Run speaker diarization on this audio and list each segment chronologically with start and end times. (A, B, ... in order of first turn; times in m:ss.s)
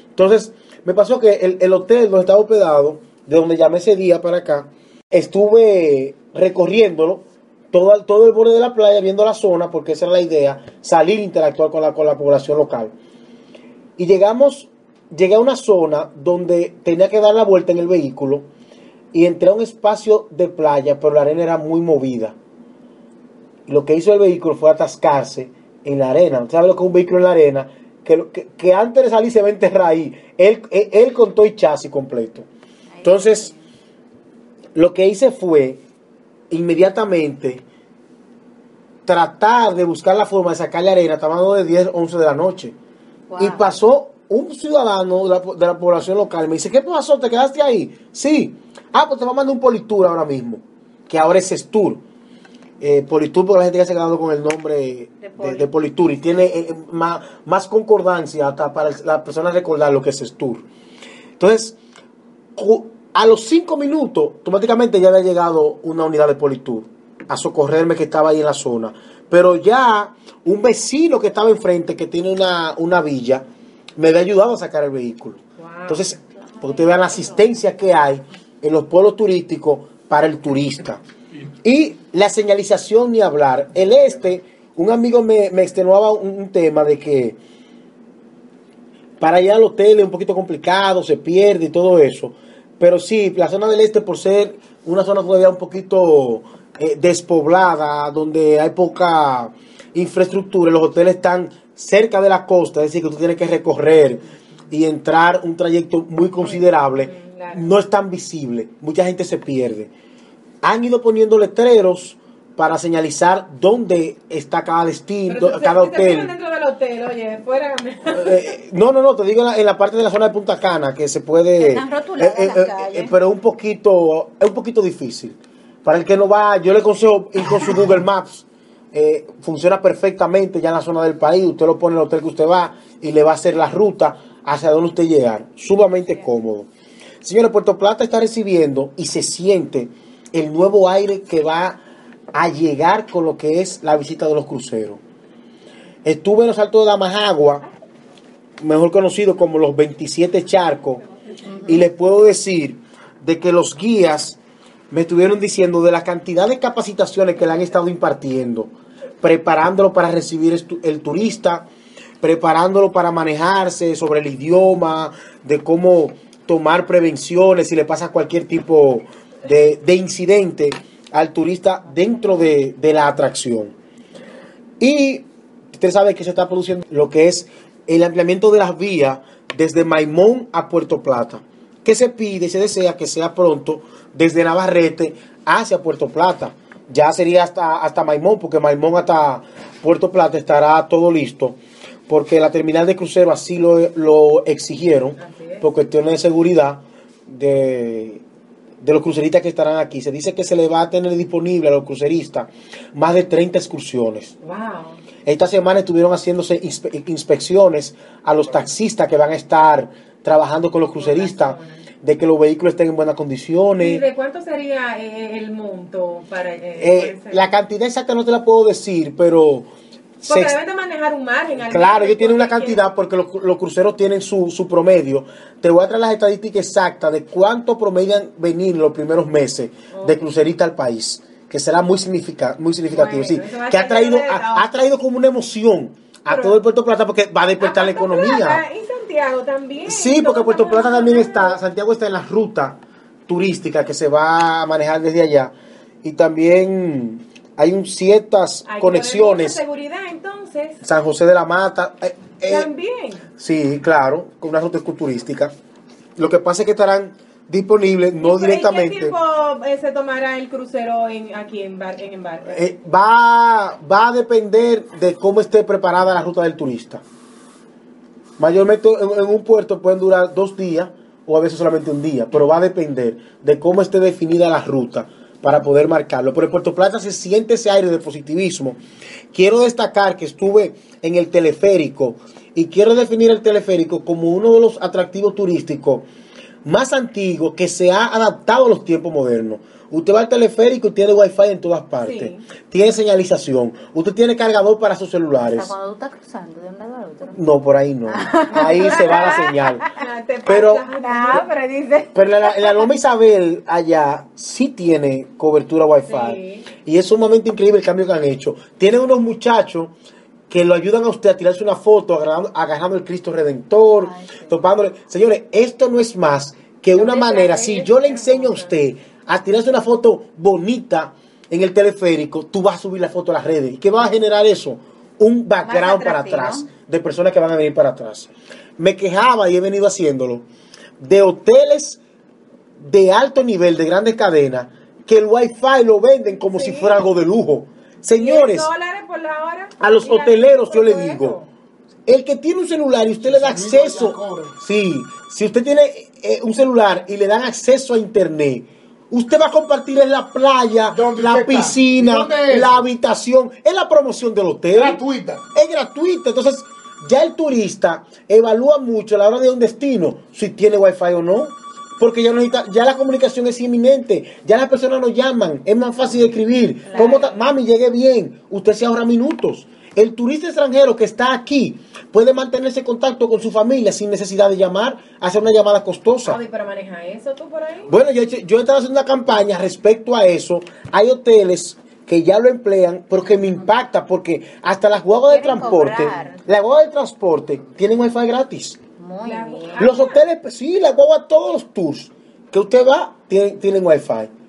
0:00.2-0:12.9 A
0:14.0-0:18.5 A
0:19.1-0:22.4 A
0:23.7-0:32.5 A
0:32.9-0:33.7 B
0:33.0-0:33.5 A
0:34.8-0:35.8 A
0:36.5-0:37.6 A
0:39.1-0:42.8 A
0:43.3-0:43.7 B
0:43.4-0:52.0 A
0:52.8-1:00.6 A
0:55.2-0:55.7 B
1:01.4-1:01.8 A
1:02.6-1:13.4 A
1:14.0-1:21.0 A
1:15.6-1:16.0 C
1:21.6-1:27.4 A
1:29.2-1:49.9 A
1:46.4-1:47.7 C
1:50.6-1:56.3 A
1:55.3-1:58.5 C
1:58.1-2:16.7 A
2:01.6-2:03.2 B
2:17.2-2:21.8 A
2:22.3-2:25.0 A
2:26.0-2:27.7 A
2:28.6-2:31.0 A
2:31.4-2:31.9 B
2:31.6-2:34.4 A
2:34.9-2:41.7 A
2:42.2-2:53.7 A
2:54.8-3:11.6 A
3:12.1-3:18.2 A
3:15.2-3:15.7 C
3:18.8-3:24.3 A
3:24.4-3:25.0 C
3:25.2-3:34.0 A
3:31.0-3:31.8 C
3:33.8-3:37.5 C
3:36.8-3:39.7 A
3:40.2-3:40.6 A
3:40.3-3:42.8 C
3:41.6-3:58.6 A
3:49.9-3:50.2 C
3:52.9-3:54.7 C
3:56.3-3:56.6 C
3:57.6-4:01.6 C
3:59.9-4:05.5 A
4:06.0-4:09.6 A
4:08.7-4:10.8 C
4:10.8-4:12.7 A
4:12.4-4:13.2 C
4:13.4-4:15.5 A
4:16.2-4:19.2 A
4:18.2-4:22.6 C
4:22.5-4:27.0 A
4:28.4-4:38.8 A
4:39.3-4:46.0 A
4:46.6-4:55.7 A
4:52.0-4:52.4 C
4:55.4-4:57.4 B
4:57.3-4:59.9 A
4:58.1-5:00.0 B
4:58.5-5:01.5 C
5:00.5-5:00.8 A
5:01.0-5:02.9 B
5:02.1-5:09.9 A
5:06.0-5:06.7 C
5:10.5-5:30.4 A
5:14.0-5:14.6 B
5:16.9-5:18.8 C
5:25.6-5:26.7 B
5:31.0-5:32.0 A
5:32.8-5:38.7 A
5:36.5-5:37.0 C
5:38.1-5:41.5 C
5:39.8-5:41.4 A
5:42.1-5:55.0 A
5:43.2-5:44.6 D
5:50.9-5:52.8 D
5:54.7-5:55.4 D
5:55.5-6:16.4 A
6:06.9-6:07.4 C
6:16.2-6:17.9 C
6:17.9-6:28.8 A
6:25.3-6:26.4 B
6:29.0-6:29.9 B
6:29.2-6:30.2 C
6:29.8-6:34.3 A